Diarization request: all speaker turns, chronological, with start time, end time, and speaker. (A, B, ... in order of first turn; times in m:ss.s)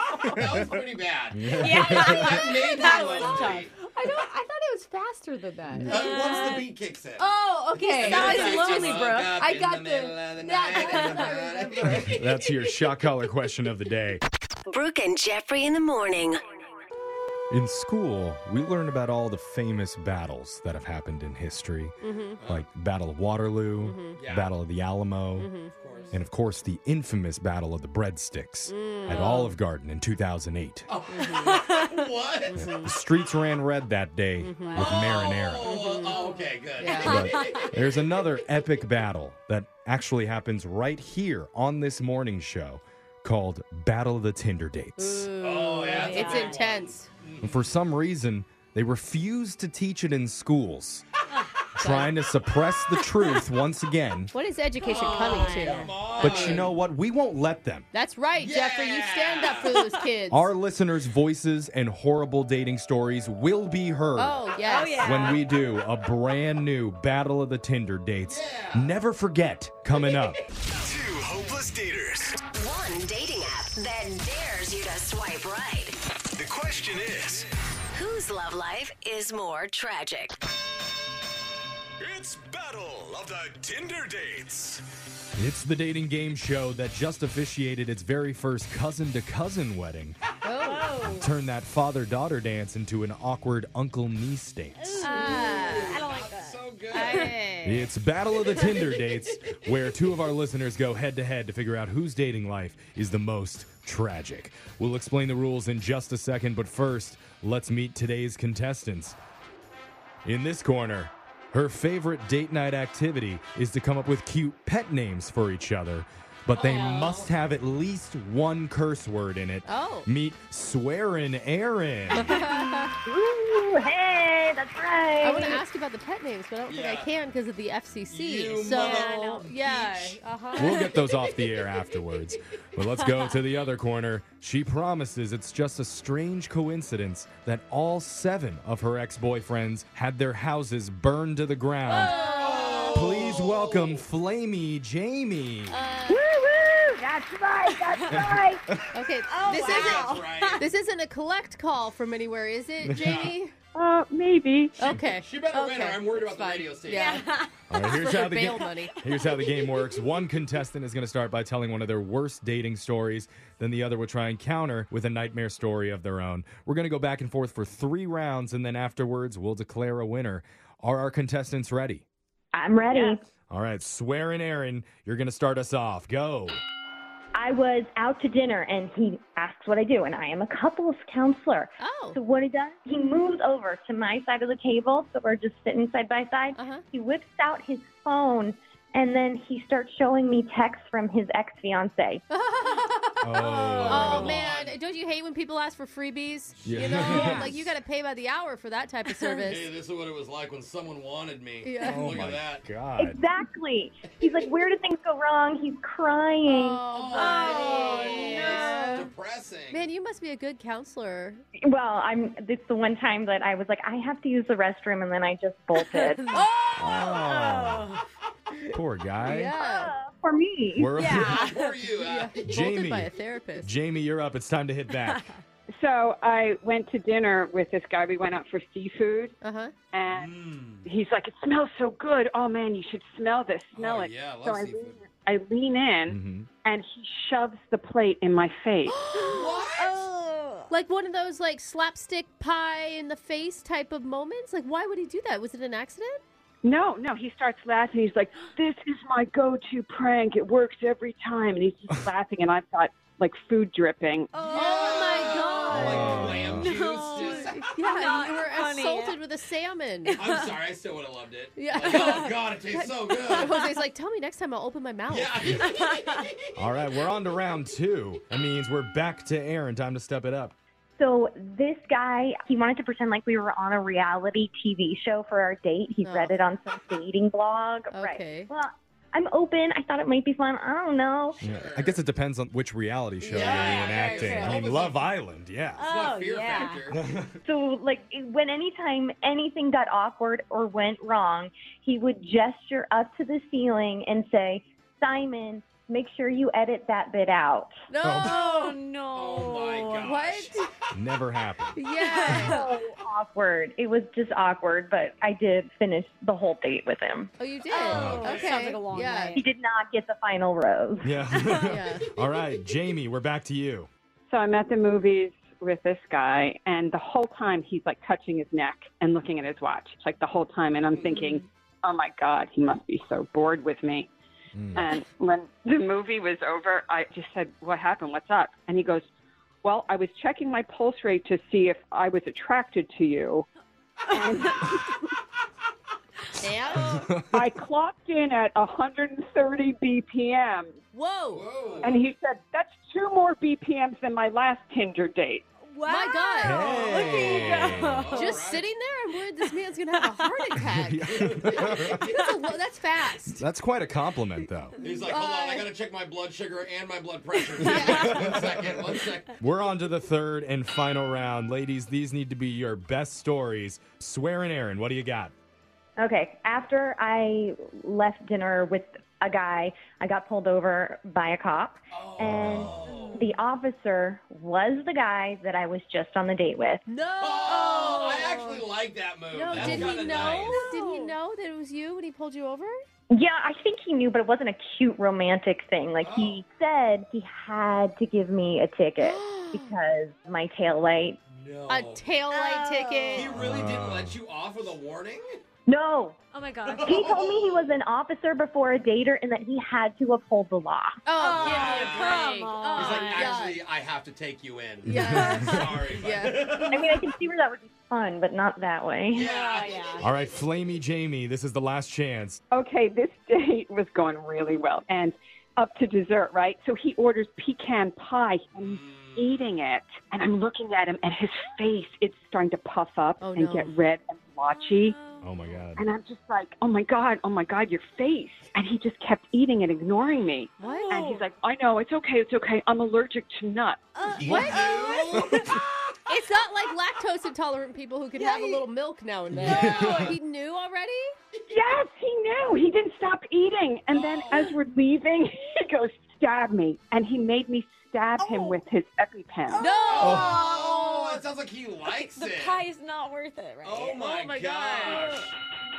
0:00.3-0:03.7 A
0:01.3-0:02.4 B
0:01.6-0:03.7 C
0:01.9-0:06.7 D
0:05.9-0:07.2 A
0:06.1-0:06.6 C
0:07.2-0:12.2 D
0:07.8-0:12.2 A
0:08.0-0:09.2 C
0:10.8-0:11.3 C
0:11.8-0:14.2 B
0:14.7-0:16.4 E
0:17.5-0:25.5 B
0:22.0-0:22.4 D
0:23.8-0:24.2 D
0:24.2-0:24.5 A
0:25.4-0:25.7 D
0:25.8-0:26.2 A
0:26.1-0:30.9 B
0:28.7-0:29.6 D
0:30.9-0:32.6 A
0:31.1-0:31.6 D
0:31.6-0:32.0 C
0:32.5-0:33.0 D
0:32.6-0:35.7 B
0:34.4-0:37.3 D
0:34.8-0:37.7 A
0:35.9-0:37.7 C
0:37.0-0:45.3 B
0:45.0-0:47.1 D
0:45.4-0:47.6 A
0:45.8-0:46.6 C
0:47.4-0:51.0 B
0:51.8-0:54.3 B
0:51.8-0:52.1 D
0:54.3-0:56.6 D
0:54.8-0:56.7 A
0:54.8-0:56.4 C
0:56.2-0:57.9 B
0:57.9-1:00.5 D
0:58.4-0:59.7 A
1:00.3-1:04.4 B
1:04.2-1:05.4 D
1:04.6-1:05.4 C
1:05.0-1:10.4 B
1:08.3-1:08.9 A
1:10.7-1:12.4 F
1:12.5-1:16.0 E
1:16.4-1:17.5 F
1:17.9-1:20.4 E
1:22.0-1:24.8 F
1:25.4-1:30.2 B
1:30.4-1:30.9 D
1:30.6-1:31.3 C
1:31.1-1:35.1 B
1:34.8-1:37.4 C
1:35.0-1:36.0 D
1:35.2-1:37.3 A
1:36.9-1:37.9 D
1:37.6-1:49.2 B
1:50.2-2:02.3 B
1:56.6-1:57.3 A
1:56.7-1:57.0 C
1:59.7-2:00.1 D
2:02.1-2:03.0 D
2:02.3-2:02.9 C
2:03.0-2:05.6 G
2:05.2-2:10.9 D
2:06.7-2:07.1 A
2:08.1-2:10.2 A
2:08.6-2:09.5 C
2:10.6-2:22.2 B
2:21.9-2:23.3 D
2:21.9-2:22.9 C
2:22.0-2:23.8 A
2:22.9-2:25.8 B
2:25.7-2:26.3 D
2:26.1-2:28.6 H
2:27.8-2:28.4 C
2:28.1-2:28.8 B
2:28.9-2:33.5 D
2:29.3-2:30.7 C
2:29.4-2:30.6 A
2:32.8-2:33.3 B
2:32.9-2:33.3 A
2:33.8-2:34.8 H
2:34.8-2:38.9 D
2:34.9-2:37.2 A
2:36.9-2:37.5 C
2:37.7-2:52.1 B
2:52.5-2:53.2 G
2:53.5-2:56.6 B
2:57.4-3:12.2 G
3:01.8-3:02.2 D
3:06.6-3:06.8 D
3:12.3-3:19.7 D
3:13.2-3:14.4 B
3:13.8-3:14.8 A
3:16.6-3:17.5 A
3:16.6-3:17.7 B
3:17.0-3:17.4 C
3:19.1-3:19.4 C
3:19.4-3:22.6 A
3:21.6-3:22.2 D
3:21.8-3:23.2 B
3:23.0-3:26.8 G
3:26.4-3:29.1 D
3:26.9-3:29.9 A
3:27.1-3:29.0 C
3:29.7-3:31.4 D
3:31.6-3:36.2 G
3:35.8-3:38.0 C
3:36.3-3:37.0 D
3:36.8-3:37.9 B
3:38.7-3:39.5 B
3:39.3-3:39.9 D
3:39.6-3:40.9 G
3:40.8-3:41.4 B
3:41.0-3:41.8 C
3:41.1-3:42.6 A
3:42.0-3:43.7 D
3:42.4-3:43.1 B
3:43.6-3:45.3 B
3:45.0-3:45.4 C
3:45.8-3:49.4 H
3:49.4-3:49.7 D
3:49.9-3:59.0 H
3:50.1-3:50.8 A
3:53.7-3:55.0 A
3:56.1-3:56.5 B
3:58.9-3:59.7 D
3:59.1-4:00.7 C
3:59.3-4:00.1 A
4:00.7-4:06.2 D
4:06.6-4:14.3 H
4:14.3-4:19.2 C
4:14.4-4:16.4 D
4:14.5-4:17.7 A
4:15.7-4:16.7 B
4:17.1-4:20.4 D
4:20.1-4:20.4 C
4:20.2-4:23.6 A
4:21.6-4:25.5 D
4:21.8-4:22.4 C
4:23.3-4:23.8 C
4:25.1-4:26.4 A
4:25.7-4:26.2 C
4:26.6-4:30.6 B
4:31.0-4:41.4 G
4:36.0-4:36.4 D
4:37.9-4:38.5 D
4:41.4-4:42.0 A
4:41.4-4:45.9 B
4:43.2-4:44.2 D
4:43.3-4:45.0 A
4:43.4-4:44.6 C
4:45.8-4:47.0 A
4:45.8-4:46.8 C
4:46.9-4:47.4 B
4:47.4-4:57.7 G
4:57.9-4:58.8 D
4:58.0-4:58.4 B
4:58.2-5:00.1 C
4:59.1-5:00.6 A
4:59.9-5:00.7 D
5:00.9-5:01.8 B
5:01.8-5:02.7 D
5:01.9-5:02.8 C
5:02.3-5:07.3 G
5:07.4-5:09.4 D
5:07.7-5:09.5 C
5:07.8-5:08.6 A
5:07.9-5:08.3 B
5:09.4-5:11.2 G
5:11.0-5:13.9 B
5:11.6-5:12.0 D
5:14.3-5:24.1 H
5:24.6-5:24.8 B
5:24.8-5:29.1 H
5:29.6-5:33.5 H
5:34.1-5:35.0 H
5:36.4-5:37.3 D
5:37.3-5:40.8 H
5:40.9-5:41.5 D
5:41.3-5:42.0 A
5:41.8-5:45.5 H
5:45.7-5:48.5 C
5:45.8-5:53.4 D
5:46.4-5:48.0 B
5:47.0-5:48.6 A
5:49.4-5:50.6 C
5:50.7-5:52.0 B
5:52.1-5:52.3 C
5:53.3-5:54.8 B
5:54.8-5:59.3 A
5:55.1-5:55.7 D
5:57.7-5:58.3 D
5:57.8-5:58.8 B
5:59.4-6:05.3 B
6:06.0-6:16.8 G
6:11.9-6:13.3 A
6:12.2-6:12.7 B
6:12.9-6:13.4 C
6:16.9-6:18.6 D
6:17.2-6:20.7 A
6:19.3-6:22.7 D
6:19.6-6:19.9 B
6:20.0-6:21.2 C
6:23.1-6:31.2 G
6:26.0-6:26.4 A
6:29.0-6:29.7 D
6:31.3-6:32.1 A
6:31.7-6:33.4 D
6:32.3-6:33.3 C
6:33.1-6:35.3 A
6:33.4-6:34.2 B
6:35.7-6:36.2 G
6:36.3-6:37.2 C
6:36.7-6:37.7 A
6:36.8-6:41.0 G
6:41.0-6:43.6 D
6:41.2-6:43.5 C
6:41.2-6:46.9 A
6:44.8-6:46.8 D
6:44.9-6:45.6 B
6:45.0-6:45.5 C
6:46.7-6:49.3 G
6:49.1-6:50.0 A
6:49.2-6:50.1 C
6:50.0-6:52.4 B
6:52.5-7:05.0 H
6:58.6-6:59.3 A
7:03.2-7:03.7 D
7:04.5-7:05.6 C
7:05.2-7:05.8 B
7:05.8-7:13.9 H
7:10.6-7:11.1 D
7:10.6-7:11.2 C
7:14.0-7:15.6 C
7:14.2-7:15.6 A
7:14.2-7:15.3 D
7:14.3-7:14.6 B
7:16.1-7:21.1 D
7:18.2-7:18.6 C
7:19.4-7:20.2 B
7:19.4-7:20.2 A
7:21.5-7:29.6 H
7:23.9-7:24.5 A
7:28.2-7:28.5 D
7:29.5-7:30.6 C
7:29.5-7:31.2 D
7:29.8-7:32.6 A
7:30.0-7:30.3 B
7:32.2-7:34.0 C
7:33.6-7:35.3 A
7:33.9-7:35.3 D
7:34.9-7:35.2 C